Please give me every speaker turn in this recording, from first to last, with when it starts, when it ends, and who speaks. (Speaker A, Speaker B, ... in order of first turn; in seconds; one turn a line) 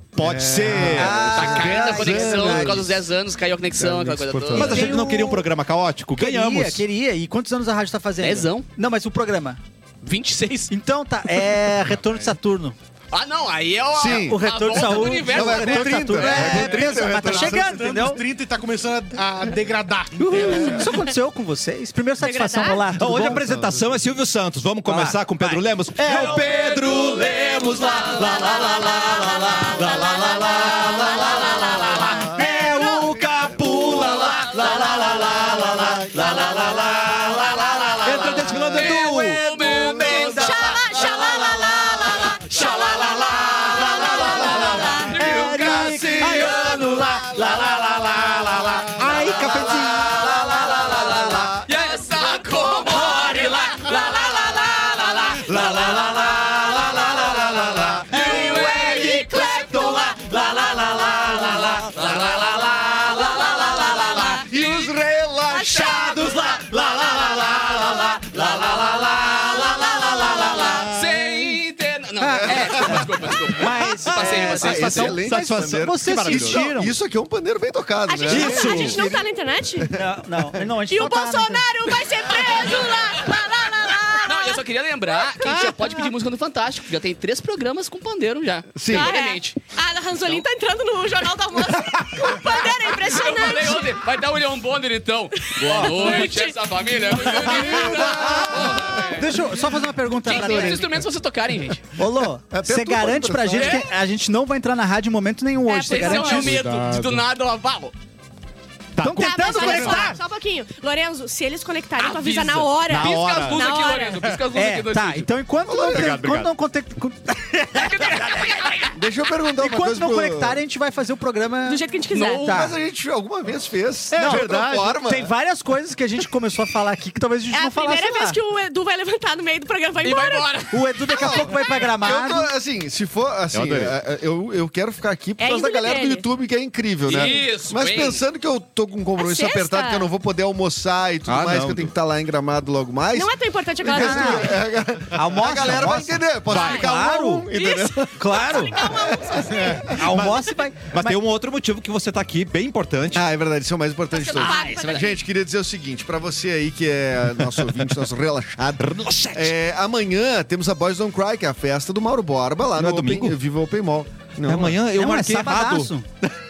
Speaker A: 0.1-1.2
Speaker B: 0.2-3.0
Speaker C: 0.7-2.8
Speaker D: 0.9-4.9
Speaker B: 3.7-5.0
Speaker C: 4.5-5.5
Speaker A: 4.5-6.8
Speaker C: 6.1-9.6
Speaker D: 8.2-8.7
Speaker D: 10.0-10.7
Speaker C: 10.7-12.8
Speaker D: 13.1-16.2
Speaker B: 13.9-17.8
Speaker C: 14.1-18.2
Speaker E: 16.2-20.8
Speaker C: 20.2-23.4
Speaker F: 20.5-21.1
Speaker F: 22.2-22.9
Speaker A: 22.9-40.5
Speaker B: 23.2-24.0
Speaker C: 24.8-26.7
Speaker F: 27.5-33.0
Speaker B: 32.1-33.1
Speaker C: 32.4-32.8
Speaker B: 34.3-36.7
Speaker C: 38.0-40.5
Speaker D: 38.7-40.8
Speaker F: 40.2-45.2
Speaker A: 41.1-51.6
Speaker C: 44.9-47.8
Speaker B: 45.2-47.6
Speaker B: 48.3-51.5
Speaker C: 48.9-49.9
Speaker D: 51.5-55.5
Speaker A: 53.1-53.6
Speaker F: 54.9-55.2
Speaker A: 55.3-64.9
Speaker B: 57.5-58.2
Speaker D: 58.1-59.6
Speaker F: 59.0-59.9
Speaker D: 62.0-62.6
Speaker F: 63.2-64.5
Speaker B: 64.2-66.2
Speaker F: 65.5-66.3
Speaker A: 65.5-71.2
Speaker D: 70.3-75.2
Speaker C: 72.2-76.9
Speaker B: 72.3-73.3
Speaker A: 73.9-76.6
Speaker B: 74.1-79.2
Speaker F: 78.1-80.0
Speaker C: 78.3-79.1
Speaker A: 78.6-79.0
Speaker C: 79.9-81.7
Speaker F: 80.9-85.8
Speaker D: 84.2-89.6
Speaker B: 88.7-89.1
Speaker F: 88.9-94.0
Speaker D: 92.7-99.3
Speaker F: 95.4-96.5
Speaker C: 95.7-96.2
Speaker B: 97.3-99.2
Speaker C: 97.3-101.0
Speaker D: 100.2-101.8
Speaker B: 100.2-101.0
Speaker C: 102.0-106.6
Speaker B: 102.0-103.8
Speaker D: 103.5-103.8
Speaker F: 105.7-106.6
Speaker D: 105.8-107.9
Speaker E: 106.2-107.2
Speaker A: 109.0-110.1
Speaker C: 109.0-110.2
Speaker F: 109.1-114.3
Speaker D: 112.0-115.3
Speaker A: 112.8-113.7
Speaker C: 114.5-118.9
Speaker B: 115.7-116.3
Speaker A: 115.8-116.5
Speaker D: 117.8-118.9
Speaker B: 118.9-120.6
Speaker C: 119.6-121.8
Speaker F: 121.6-122.5
Speaker D: 122.1-122.7
Speaker C: 122.4-122.7
Speaker B: 122.5-125.3
Speaker C: 124.1-128.4
Speaker F: 127.5-130.6
Speaker D: 130.0-130.9
Speaker C: 130.7-132.5
Speaker B: 131.1-150.0
Speaker A: 133.5-133.9
Speaker F: 135.4-136.2
Speaker D: 137.0-138.2
Speaker F: 139.2-140.1
Speaker A: 141.3-141.9
Speaker F: 143.1-144.6
Speaker C: 143.9-144.6
Speaker C: 145.1-147.5
Speaker F: 146.5-150.0
Speaker A: 146.5-146.8
Speaker C: 148.2-148.9
Speaker C: 149.8-151.2
Speaker A: 149.9-153.2
Speaker B: 153.1-164.8
Speaker F: 154.1-155.1
Speaker D: 154.3-155.2
Speaker A: 158.8-159.5
Speaker A: 162.8-163.3
Speaker A: 164.4-165.9
Speaker C: 164.9-166.1